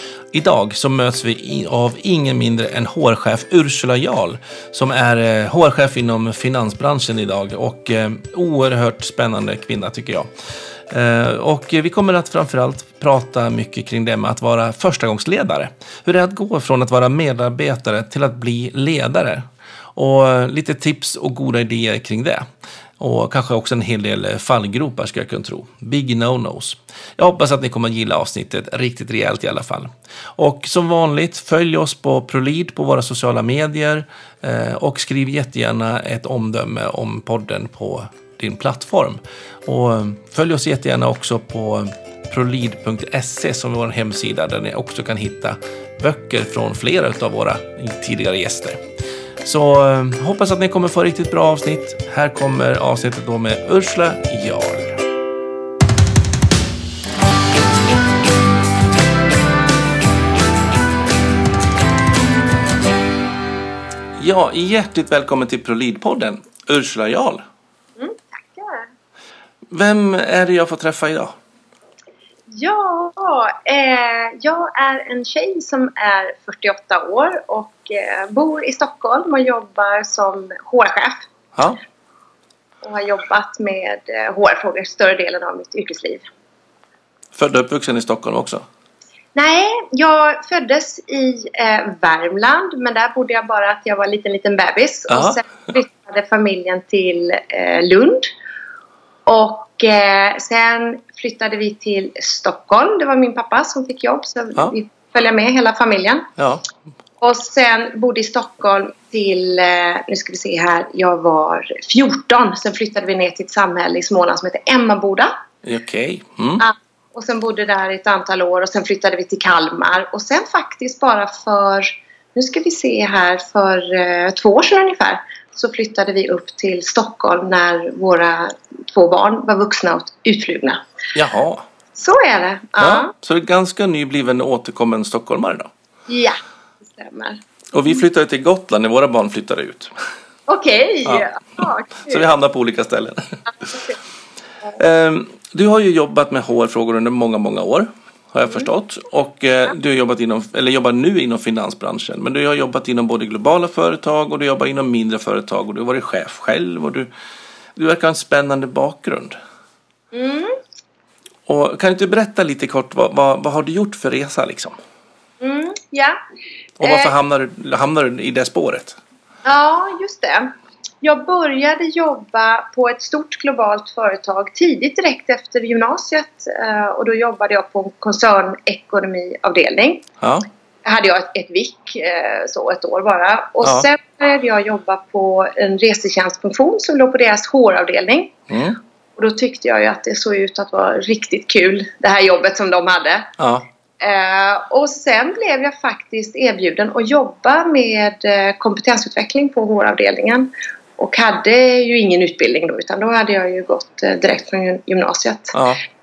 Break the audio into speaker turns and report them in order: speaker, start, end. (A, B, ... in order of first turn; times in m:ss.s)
0:00.3-0:10.3 A
0:10.9-0:22.5 A
0:23.0-0:48.8 A
0:49.4-0:55.0 A
1:04.2-1:07.4 A
1:08.0-1:08.9 B
1:09.7-1:11.3 A
1:12.5-1:21.3 B
1:22.8-1:26.2 B
1:27.3-1:28.6 A
1:29.3-1:38.3 B
1:35.1-1:35.4 A
1:39.2-1:46.3 B
1:46.4-1:46.7 A
1:47.2-1:55.3 B
1:55.6-1:56.6 A
1:56.6-2:10.8 B
2:11.1-2:11.6 A
2:12.0-2:13.1 B
2:12.8-2:15.7 A
2:16.1-2:17.4 B
2:17.7-2:19.9 A
2:20.5-2:22.3 B
2:22.0-2:23.4 A
2:23.5-2:24.0 B
2:24.8-2:37.1 A
2:37.8-2:39.4 A
2:40.1-2:40.6 B
2:41.5-2:44.8 A
2:45.4-2:46.2 B
2:46.8-2:49.0 A
2:46.8-2:47.1 B
2:49.4-3:00.1 B
3:00.2-3:00.5 A
3:00.8-3:08.4 B
3:03.6-3:03.9 A
3:08.5-3:08.8 A
3:09.2-3:13.3 B
3:13.4-3:13.6 A
3:14.0-3:25.6 B
3:25.5-3:25.8 A